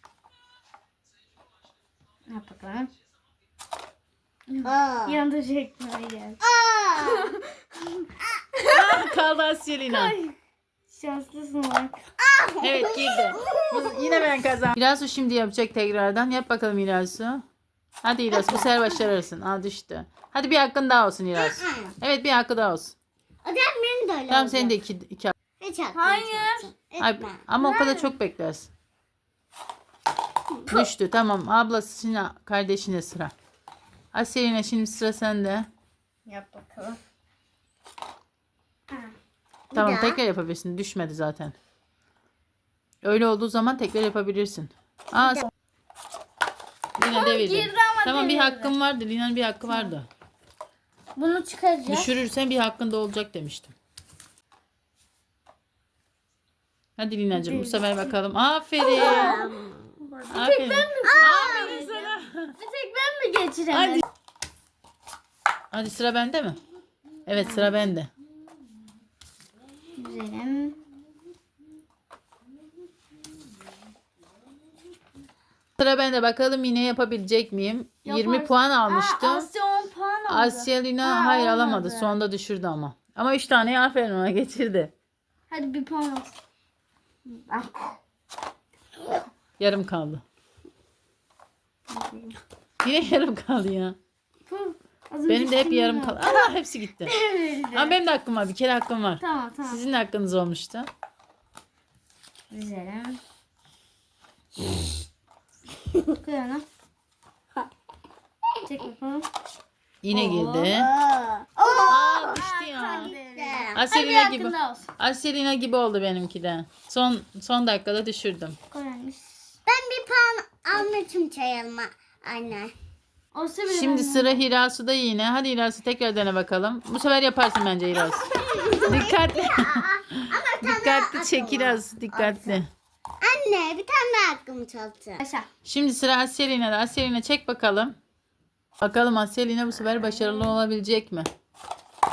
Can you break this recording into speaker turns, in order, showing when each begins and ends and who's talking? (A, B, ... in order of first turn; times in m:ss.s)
0:02.3-0:02.9 A
0:04.5-0:06.4 A
0:04.6-0:05.2 B
0:06.4-0:07.3 B
0:07.0-0:09.2 A
0:08.7-0:10.2 C
0:09.9-0:10.4 A
0:10.9-0:12.0 A
0:12.2-0:14.3 B
0:12.6-0:17.4 C
0:18.0-0:23.0 C
0:21.4-0:21.9 B
0:23.4-0:24.8 B
0:24.3-0:25.4 C
0:25.6-0:27.4 B
0:25.9-0:26.7 A
0:27.0-0:28.7 C
0:27.6-0:28.2 A
0:30.7-0:33.3 C
0:34.1-0:35.7 C
0:36.3-0:37.0 A
0:39.7-0:40.2 B
0:39.7-0:41.6 C
0:43.0-0:45.5 C
0:45.2-0:45.5 A
0:47.0-0:50.1 C
0:47.0-0:48.7 A
0:49.7-0:50.0 A
0:51.2-0:52.1 A
0:51.9-0:53.7 C
0:57.0-0:59.4 C
0:57.3-0:58.2 A
0:58.8-0:59.9 B
0:58.9-0:59.5 A
1:00.0-1:04.0 A
1:00.3-1:02.6 C
1:01.0-1:01.8 B
1:03.7-1:04.0 C
1:05.7-1:06.6 C
1:07.3-1:08.1 C
1:07.4-1:07.8 A
1:10.0-1:10.8 A
1:15.8-1:19.5 C
1:18.0-1:22.2 A
1:20.3-1:24.9 C
1:25.5-1:26.4 A
1:27.3-1:28.0 A
1:29.6-1:30.2 C
1:31.9-1:32.4 A
1:32.8-1:34.0 C
1:34.5-1:36.5 A
1:35.3-1:37.1 C
1:37.0-1:38.0 A
1:37.7-1:40.9 C
1:39.2-1:39.8 A
1:42.5-1:43.2 A
1:46.2-1:46.7 A
1:48.6-1:49.3 A
1:50.0-1:50.9 C
1:50.1-1:50.8 A
1:50.6-1:53.8 B
1:51.6-1:54.9 A
1:51.9-1:53.1 C
1:53.8-1:58.6 C
1:58.7-1:59.3 A
1:59.7-2:02.7 B
2:03.3-2:04.4 A
2:03.7-2:08.3 C
2:08.0-2:12.6 B
2:08.4-2:09.0 A
2:08.9-2:12.7 C
2:13.2-2:15.2 B
2:15.2-2:15.5 A
2:15.6-2:18.0 C
2:18.8-2:21.3 C
2:20.2-2:20.5 A